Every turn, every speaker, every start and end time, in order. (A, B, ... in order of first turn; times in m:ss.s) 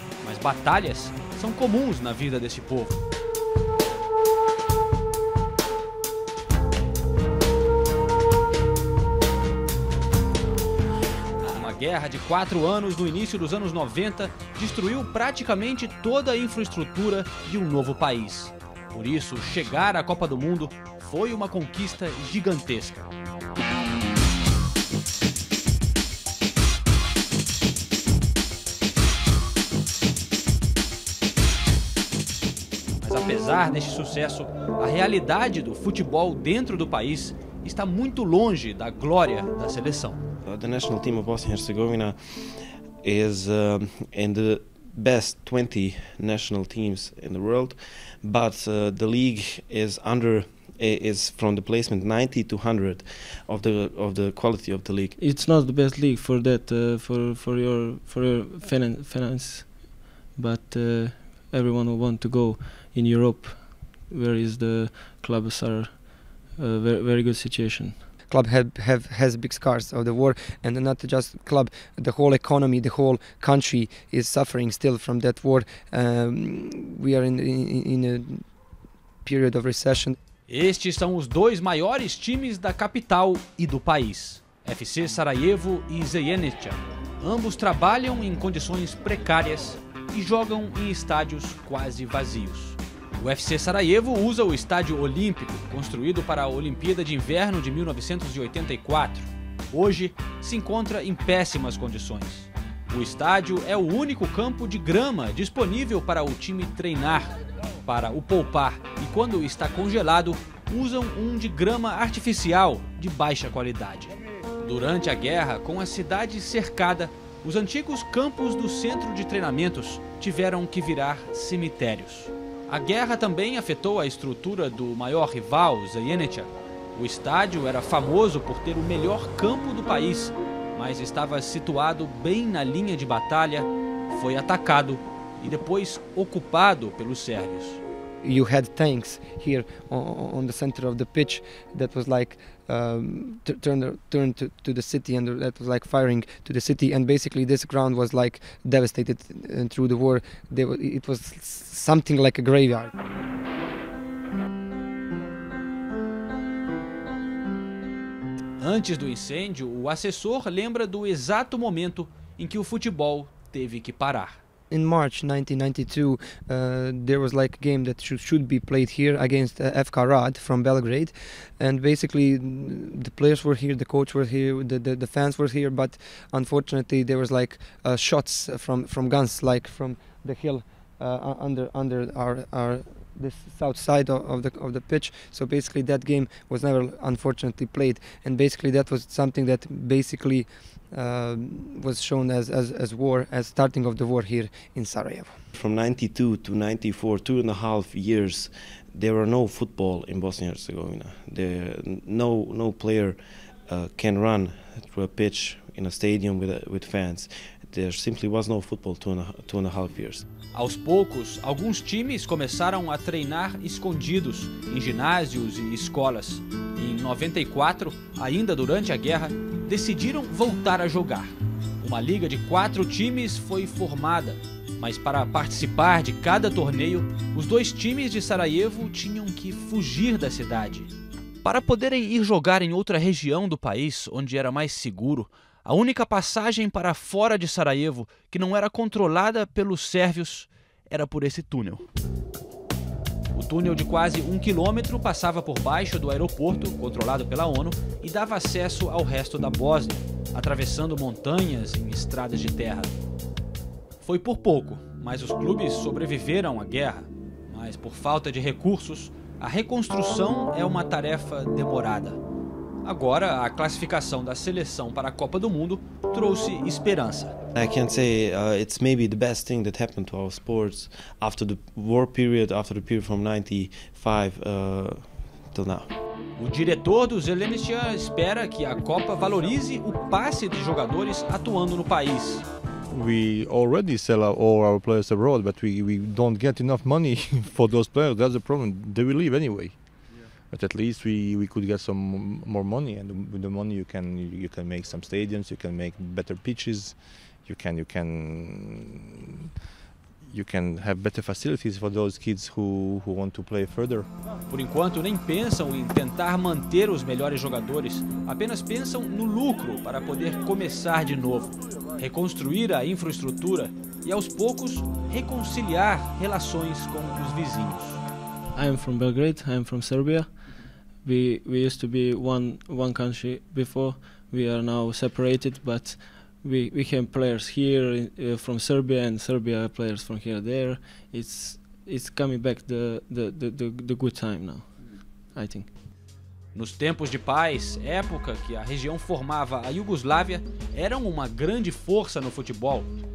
0:00.2-0:03.0 A
0:11.4-0:23.1 A
0:33.0-0:40.2 A
0:40.4-0:55.2 B
0:55.2-1:08.0 C
1:08.3-1:18.4 D
1:19.2-1:20.2 D
1:20.5-2:17.8 A
2:18.2-2:32.9 D
2:38.6-2:44.4 A
2:44.7-3:15.4 D
3:15.5-3:30.2 B
3:30.5-3:50.9 A
3:51.4-4:01.9 A
4:03.3-4:13.0 A
4:14.0-4:22.2 A
4:22.8-4:27.4 A
4:27.5-4:35.9 B
4:36.4-4:42.4 A
4:42.9-4:49.9 E
4:50.5-4:59.6 E
5:00.2-5:04.1 E
5:04.5-5:18.0 A
5:18.5-5:34.8 C
5:35.3-5:35.7 C
5:36.5-5:42.9 A